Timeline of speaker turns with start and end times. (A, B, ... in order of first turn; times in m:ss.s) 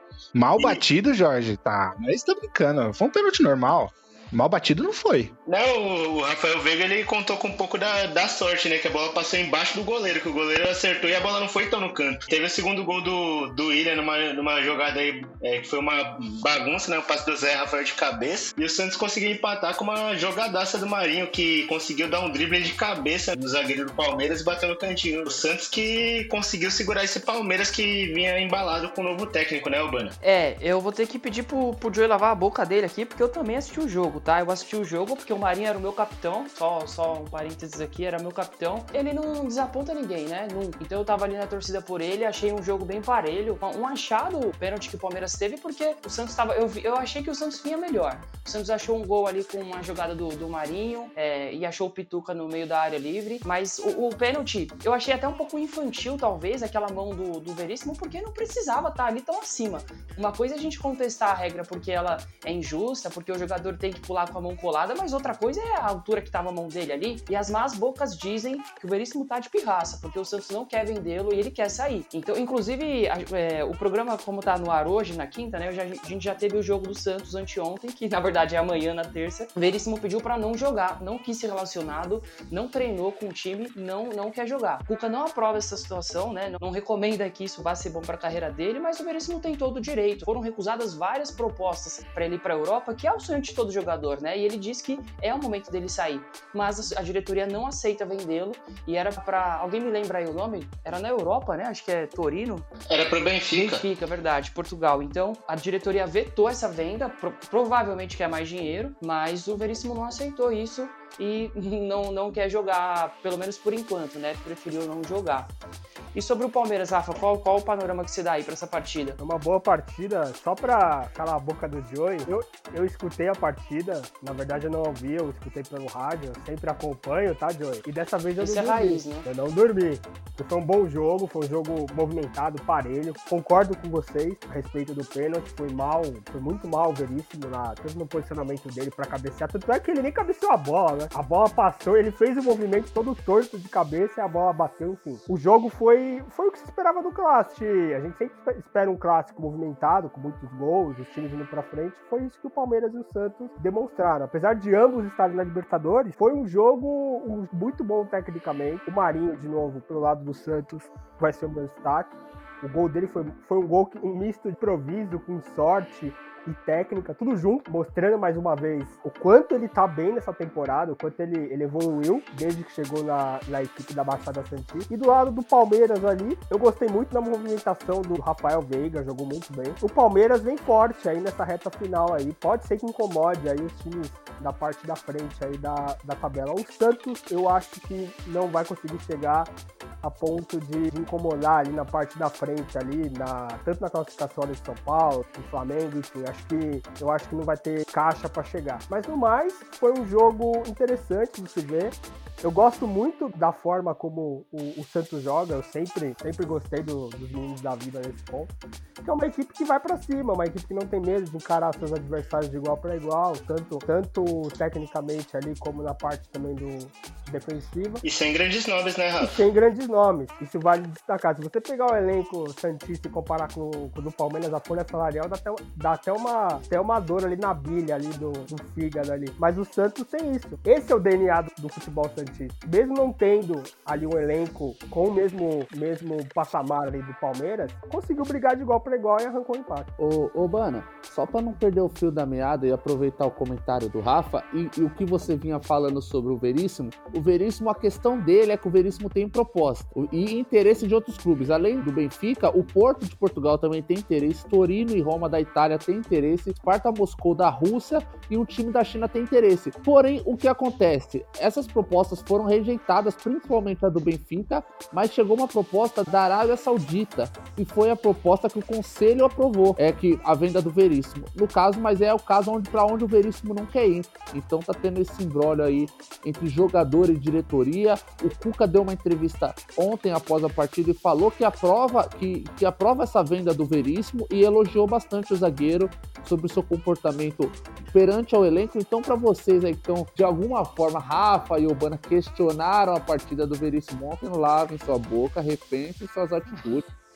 0:00.3-0:05.3 A
0:00.6-0:00.8 B
0:05.5-0:30.2 B
0:30.2-1:42.7 C
1:42.9-1:43.8 B
1:43.5-1:55.5 C
1:56.1-1:59.2 C
1:59.2-3:28.5 D
2:08.4-2:09.2 C
3:29.0-3:38.0 D
3:38.0-3:39.4 B
3:39.2-3:59.9 D
4:00.0-4:56.8 E